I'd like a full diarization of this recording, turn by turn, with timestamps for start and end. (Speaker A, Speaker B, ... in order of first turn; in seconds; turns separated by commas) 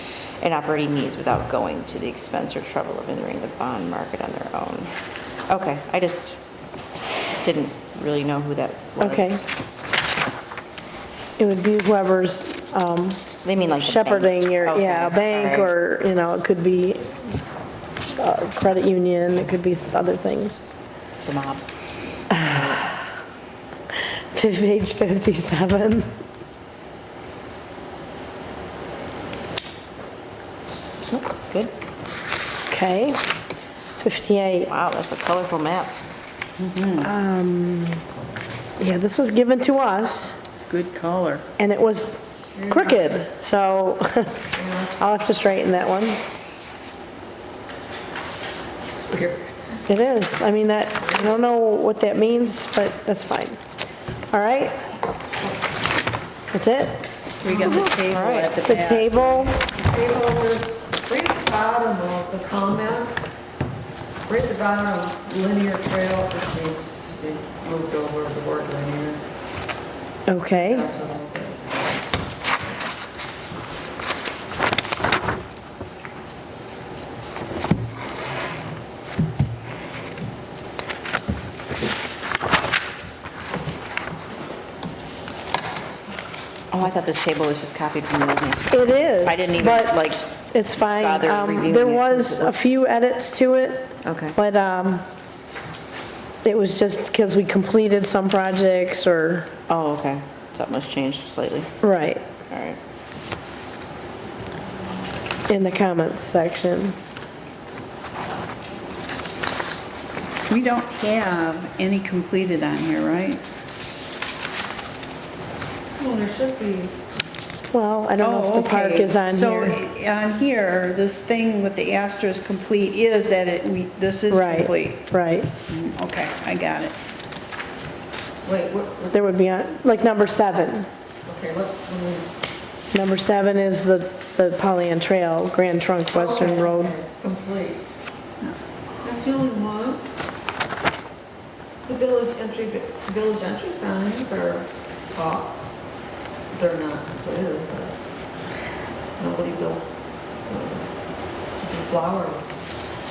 Speaker A: 0.4-4.9, Speaker A: 5.5-6.4, Speaker A: 7.4-9.4, Speaker B: 9.0-9.4, Speaker B: 11.4-13.2, Speaker A: 13.4-15.7, Speaker B: 13.8-17.4, Speaker B: 18.1-20.6, Speaker A: 21.2-21.6, Speaker B: 22.3-23.0, Speaker A: 22.4-22.8, Speaker B: 24.3-26.1, Speaker A: 31.0-31.7, Speaker B: 32.7-33.2, Speaker B: 34.0-34.7, Speaker A: 34.7-35.9, Speaker C: 36.6-37.1, Speaker B: 37.0-38.0, Speaker B: 38.8-40.4, Speaker C: 40.7-41.4, Speaker B: 41.6-44.4, Speaker D: 42.5-43.1, Speaker D: 44.5-45.0, Speaker B: 45.0-46.2, Speaker D: 48.9-49.7, Speaker B: 49.9-53.6, Speaker B: 54.3-54.8, Speaker B: 56.5-57.0, Speaker C: 57.4-59.5, Speaker A: 57.5-58.6, Speaker B: 58.6-59.6, Speaker D: 59.6-63.4, Speaker D: 64.3-69.2, Speaker B: 70.3-70.9, Speaker D: 70.7-71.6, Speaker A: 86.7-92.6, Speaker B: 88.7-95.0, Speaker A: 94.0-94.4, Speaker B: 96.4-99.5, Speaker A: 99.7-101.7, Speaker B: 101.8-102.2, Speaker A: 102.5-102.8, Speaker B: 105.5-107.0, Speaker C: 110.5-113.4, Speaker D: 116.0-116.9, Speaker B: 117.7-119.8, Speaker C: 118.2-125.0, Speaker B: 124.3-125.5, Speaker C: 125.7-127.0, Speaker D: 128.4-129.3, Speaker B: 129.1-130.9, Speaker D: 131.2-132.3, Speaker B: 132.9-136.9, Speaker D: 136.1-137.8, Speaker D: 139.0-140.1, Speaker D: 141.8-145.6, Speaker D: 146.5-148.0, Speaker D: 149.2-149.9, Speaker D: 150.4-150.8, Speaker D: 151.6-152.4